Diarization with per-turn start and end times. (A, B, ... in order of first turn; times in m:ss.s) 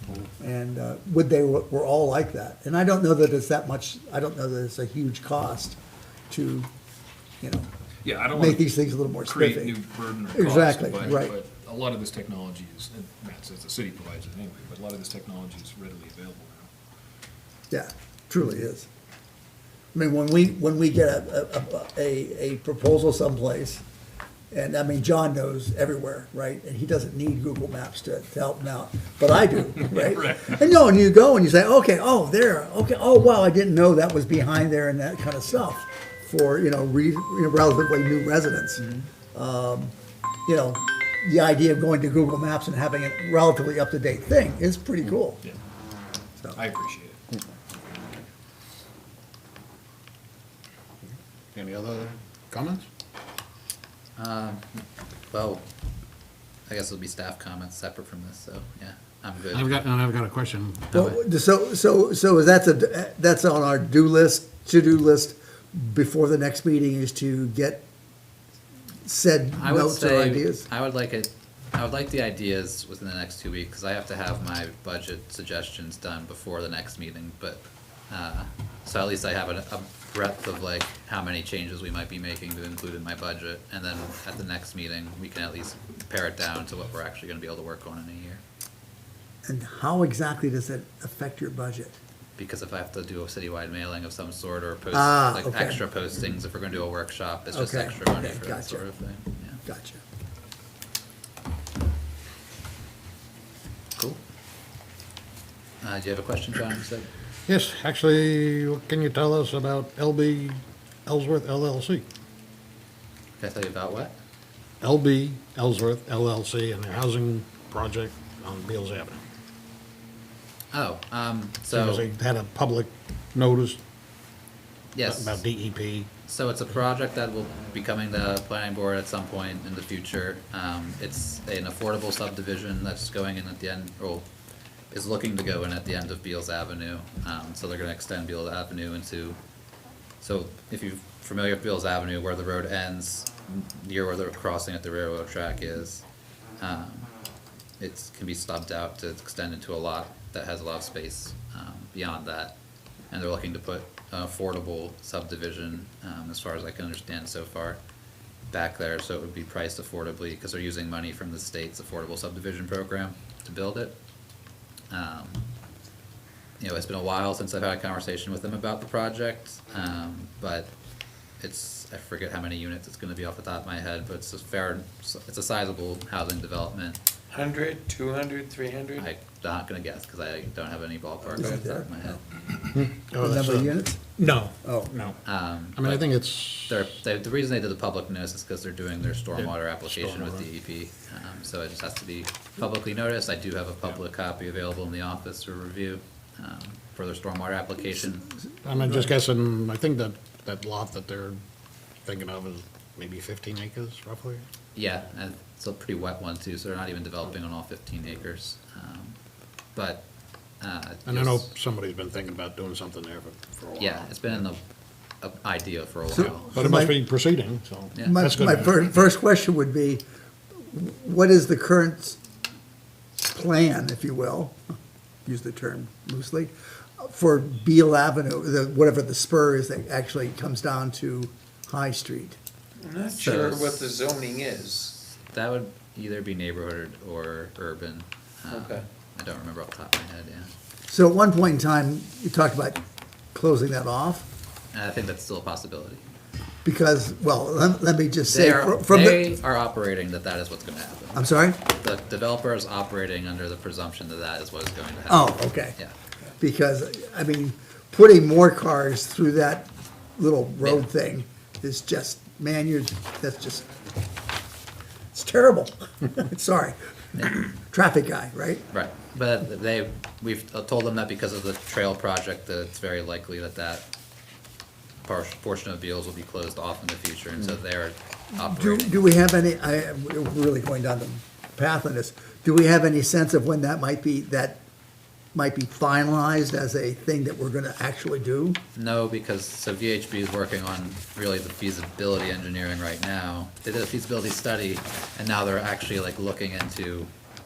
0:00.4-0:05.8 A
0:06.3-0:06.7 A
0:07.4-0:07.7 A
0:08.0-0:16.7 B
0:08.3-0:09.8 A
0:10.3-0:11.3 A
0:17.7-0:18.9 A
0:19.9-0:23.8 A
0:24.5-0:39.9 A
0:40.4-0:45.4 A
0:46.5-0:47.2 B
0:51.5-0:52.9 C
0:54.2-0:55.6 D
0:56.7-0:59.8 D
0:59.5-1:00.9 C
1:00.9-1:01.2 D
1:00.9-1:07.8 A
1:09.0-1:10.6 A
1:09.6-1:28.4 D
1:29.4-1:32.0 A
1:32.4-1:39.6 D
1:34.9-1:35.8 A
1:37.5-1:38.8 A
1:39.6-1:40.0 A
1:45.8-1:47.1 D
1:47.5-1:52.1 C
1:53.4-1:54.1 D
1:54.8-1:59.2 C
2:00.7-2:02.0 D
2:01.7-2:03.8 C
2:04.9-2:05.4 D
2:05.0-2:06.1 C
2:06.3-2:14.2 D
2:14.9-2:19.4 D
2:20.2-2:26.0 D
2:26.6-2:27.1 D
2:27.8-2:32.6 D
2:33.1-2:37.8 D
2:38.5-2:44.0 D
2:44.9-2:45.4 D
2:46.6-2:50.7 D
2:51.4-2:57.0 D
2:57.3-2:59.1 E
2:59.0-3:02.2 D
3:01.4-3:01.9 A
3:02.7-3:05.2 C
3:03.2-3:04.1 A
3:04.6-3:04.9 A
3:05.2-3:06.1 D
3:05.7-3:06.8 C
3:06.7-3:18.3 D
3:09.3-3:10.5 C
3:18.6-3:21.4 C
3:18.7-3:19.1 A
3:22.0-3:24.4 C
3:24.7-3:29.2 D
3:29.7-3:30.0 D
3:30.6-3:31.5 D
3:31.0-3:34.2 C
3:33.8-3:34.6 D
3:35.2-3:36.5 D
3:36.1-3:37.0 A
3:36.5-3:38.8 C
3:37.9-3:38.2 D
3:38.0-3:40.0 A
3:40.7-3:42.2 A
3:43.3-3:44.6 A
3:45.2-3:52.4 A
3:52.8-3:55.0 E
3:53.2-3:53.8 D
3:55.0-4:00.5 D
3:58.5-3:58.8 E
4:00.9-4:02.8 A
4:03.3-4:04.3 A
4:04.7-4:06.0 D
4:06.6-4:09.3 A
4:08.3-4:15.9 D
4:11.1-4:11.6 A
4:15.1-4:15.8 A
4:16.4-4:23.7 A
4:25.1-4:28.6 A
4:28.7-4:33.9 D
4:35.0-4:39.0 D
4:38.4-4:44.6 A
4:45.3-4:48.6 A
4:48.8-4:57.1 D